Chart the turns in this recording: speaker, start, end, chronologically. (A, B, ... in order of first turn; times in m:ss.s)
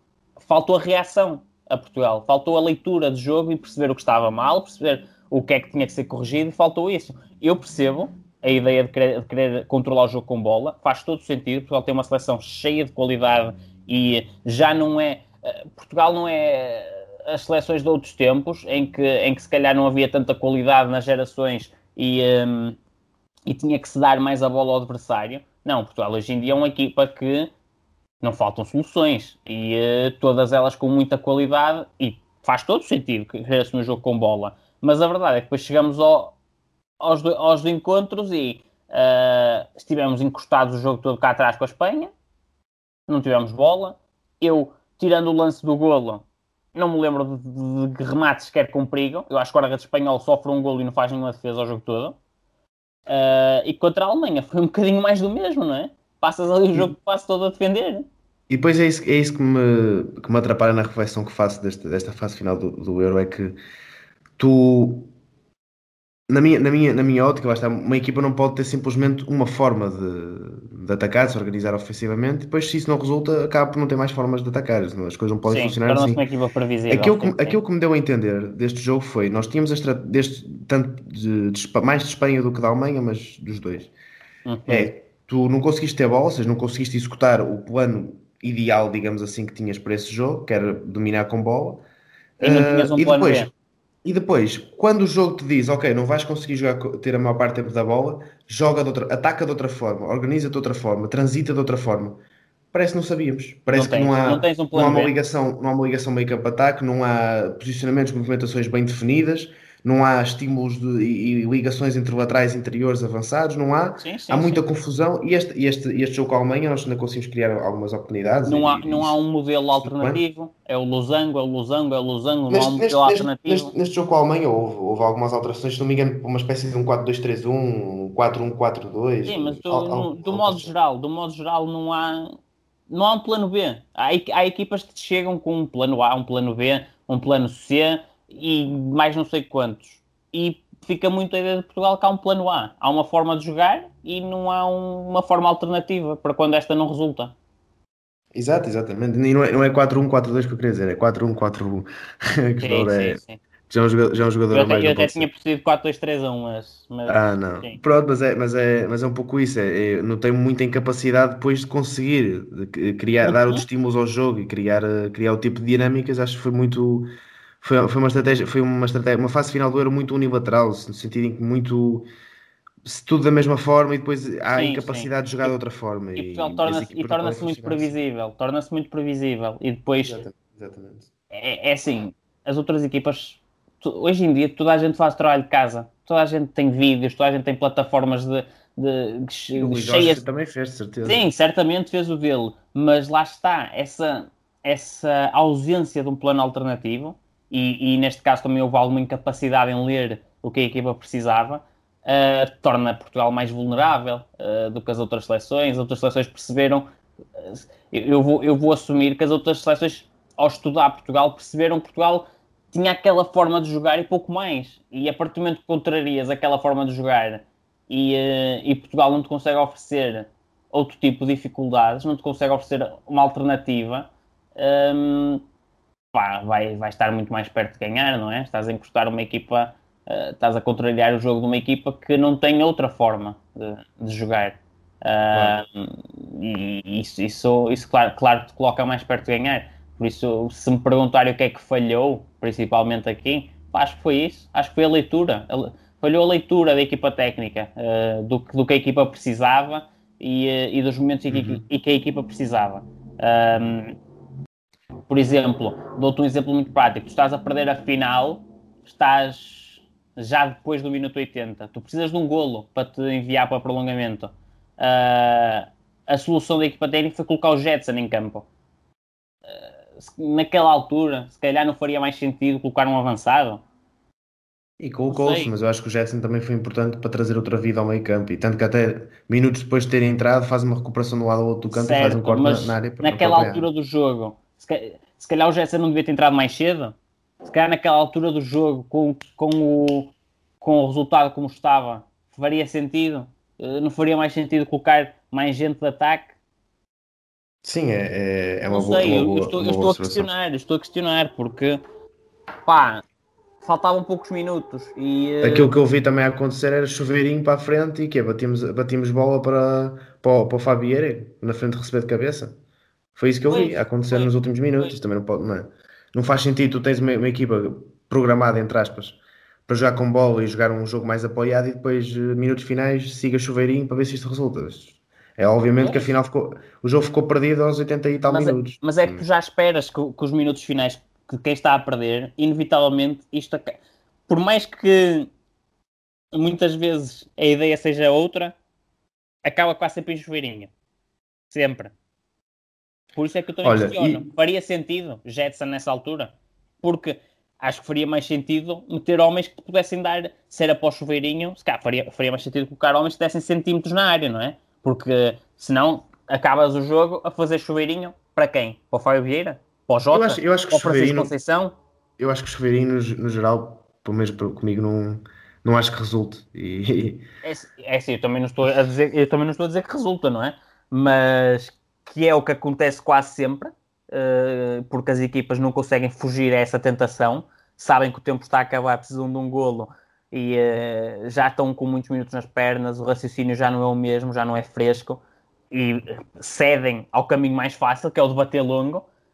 0:00.4-0:22.8 A
0:23.4-0:27.5 A
0:28.2-0:36.3 A
0:37.0-0:42.1 A
0:43.1-0:52.2 A
0:53.1-0:58.1 A
0:58.5-1:03.6 B
1:04.4-1:05.1 B
1:06.3-1:16.2 B
1:15.5-1:17.6 A
1:16.9-1:23.9 B
1:24.4-1:24.9 A
1:24.7-1:31.8 B
1:32.4-1:33.5 B
1:32.4-1:33.5 A
1:34.0-1:42.2 B
1:42.7-1:59.1 B
1:43.7-1:45.1 A
1:54.0-1:54.6 A
1:58.4-2:03.7 A
1:59.8-2:00.2 B
2:02.5-2:10.7 B
2:09.2-2:12.4 A
2:12.9-2:27.3 A
2:28.3-2:35.3 B
2:32.6-2:33.4 A
2:34.5-2:37.8 A
2:37.0-2:47.1 B
2:43.2-2:43.6 A
2:47.6-2:52.1 B
2:52.8-2:57.9 B
2:54.5-2:55.5 A
2:56.2-3:00.2 A
3:00.0-3:01.1 B
3:01.3-3:10.2 A
3:09.5-3:11.2 B
3:11.0-3:45.4 A
3:46.1-4:14.0 A
4:11.3-4:11.6 B
4:15.1-4:28.5 A
4:29.5-4:33.6 A
4:34.8-4:43.7 B
4:35.1-4:35.5 A
4:41.7-4:56.4 A
4:57.6-5:00.3 B
4:58.7-5:01.8 A
5:02.6-5:03.0 A
5:03.6-5:05.7 A
5:05.4-5:12.6 B
5:13.2-5:29.2 B
5:13.5-5:14.9 A
5:25.8-5:26.1 A
5:28.3-5:33.8 A
5:34.3-5:35.3 A
5:36.3-5:38.6 A
5:39.4-5:40.7 A
5:41.5-5:41.9 A
5:43.2-6:01.7 A
5:43.6-5:44.3 B
6:00.1-6:01.3 B
6:02.2-6:07.2 B
6:07.4-6:29.0 A